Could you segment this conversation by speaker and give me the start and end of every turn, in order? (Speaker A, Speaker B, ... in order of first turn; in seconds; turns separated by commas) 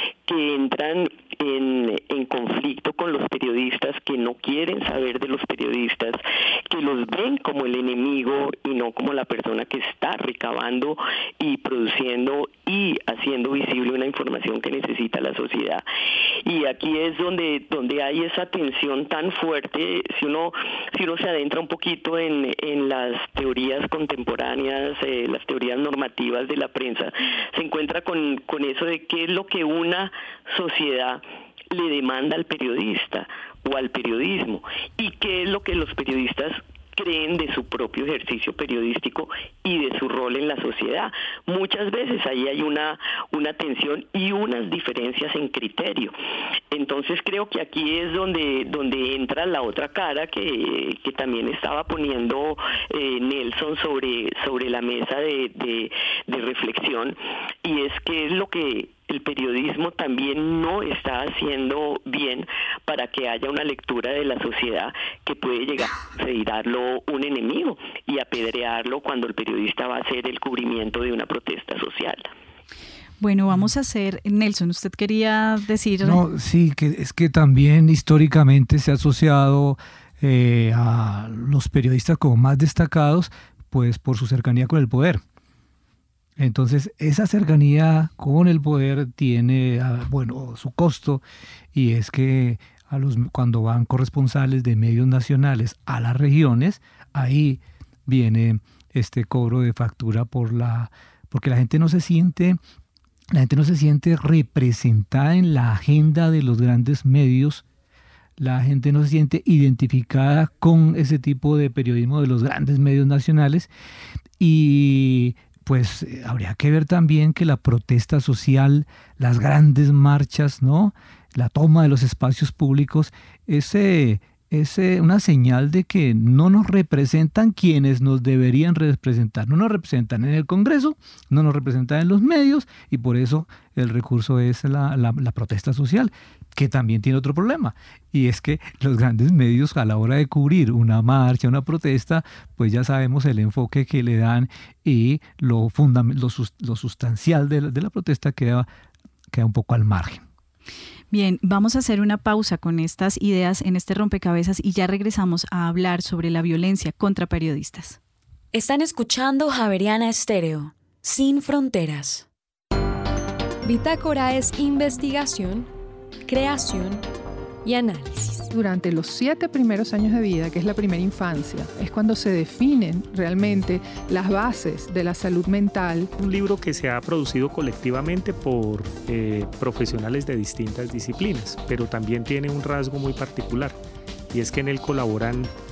Speaker A: 0.3-15.8, Speaker A: 16.4-46.1, Speaker A: 46.7-72.3, Speaker B: 73.2-76.2, Speaker C: 76.0-85.2, Speaker C: 86.4-91.2, Speaker C: 91.7-102.6, Speaker C: 103.3-107.6, Speaker C: 108.4-113.7, Speaker C: 114.4-148.7, Speaker C: 149.3-150.2, Speaker B: 151.1-158.0, Speaker D: 158.5-162.2, Speaker E: 163.6-165.7, Speaker E: 166.3-167.1, Speaker E: 167.6-168.5, Speaker F: 168.5-176.1, Speaker G: 176.2-183.8, Speaker G: 184.3-185.5